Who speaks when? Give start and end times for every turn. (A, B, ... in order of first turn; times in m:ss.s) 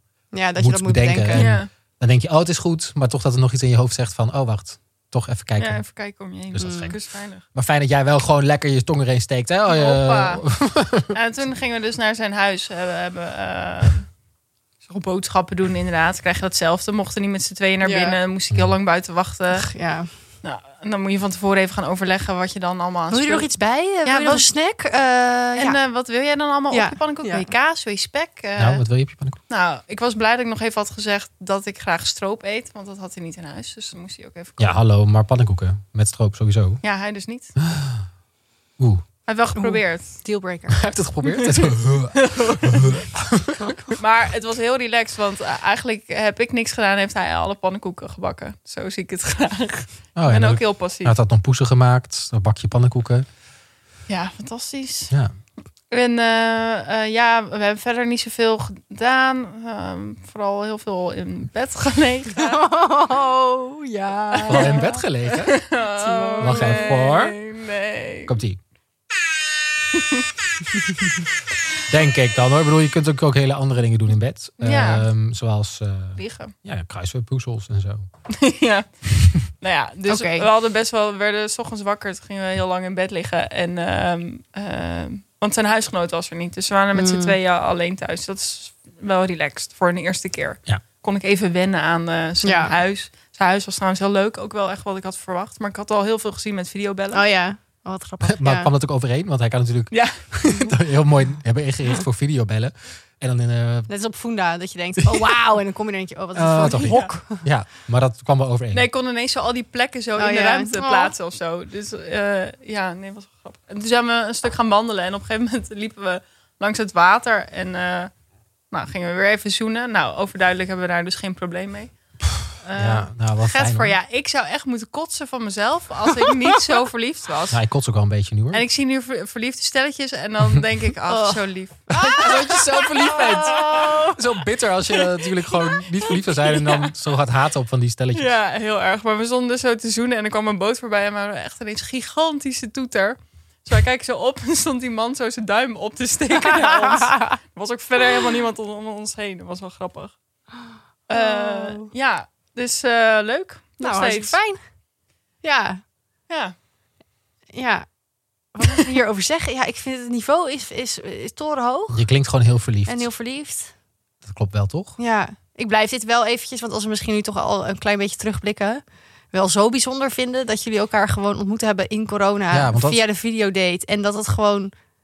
0:00.3-0:01.6 A
0:00.6-0:05.8 B
0:01.3-0:01.7 C
0:05.6-0:07.4 C
0:06.5-0:11.1 B
0:06.6-0:06.9 A
0:09.7-0:10.4 C
0:11.1-0:14.0 C
0:14.8-0:19.7 C
0:17.8-0:18.2 A
0:19.5-0:20.1 A
0:20.4-0:23.5 C
0:23.1-0:25.8 A
0:24.0-0:24.4 C
0:25.6-0:28.8 C
0:26.7-0:27.5 A
0:28.6-0:29.4 B
0:29.5-0:34.8 C
0:34.6-0:36.8 B
0:36.8-0:37.5 C
0:37.6-0:38.0 B
0:38.8-0:39.0 B
0:39.2-0:40.2 C
0:39.6-0:41.0 A
0:40.7-0:44.0 B
0:41.3-0:43.0 C
0:44.0-0:51.1 C
0:50.2-0:53.2 B
0:54.1-0:55.1 C
0:55.9-1:02.6 C
1:02.4-1:04.8 A
1:04.3-1:08.3 C
1:04.5-1:05.7 B
1:06.0-1:07.0 A
1:06.4-1:07.4 B
1:08.2-1:08.6 B
1:09.9-1:10.2 C
1:11.9-1:18.1 B
1:14.6-1:15.1 C
1:16.2-1:16.5 C
1:18.3-1:37.2 C
1:20.1-1:20.5 A
1:26.9-1:27.3 A
1:32.4-1:32.7 A
1:37.1-1:38.7 A
1:38.2-1:43.9 B
1:39.9-1:40.2 C
1:43.9-1:47.4 A
1:46.3-1:48.9 B
1:46.6-1:47.1 C
1:48.7-1:58.1 C
1:50.2-1:51.1 A
1:58.7-2:01.9 C
2:02.6-2:07.6 C
2:02.8-2:03.9 B
2:07.5-2:08.6 B
2:08.5-2:13.8 C
2:11.1-2:14.2 A
2:12.2-2:18.3 B
2:16.4-2:16.9 C
2:18.1-2:30.1 C
2:26.4-2:27.3 A
2:31.1-2:34.4 C
2:31.1-2:31.9 A
2:33.8-2:34.6 A
2:35.4-2:35.8 A
2:36.3-2:36.5 C
2:37.5-2:37.8 A
2:38.5-2:42.0 A
2:41.9-2:43.1 B
2:42.8-2:43.7 A
2:44.2-2:45.0 B
2:45.0-2:54.7 A
2:52.5-2:53.0 B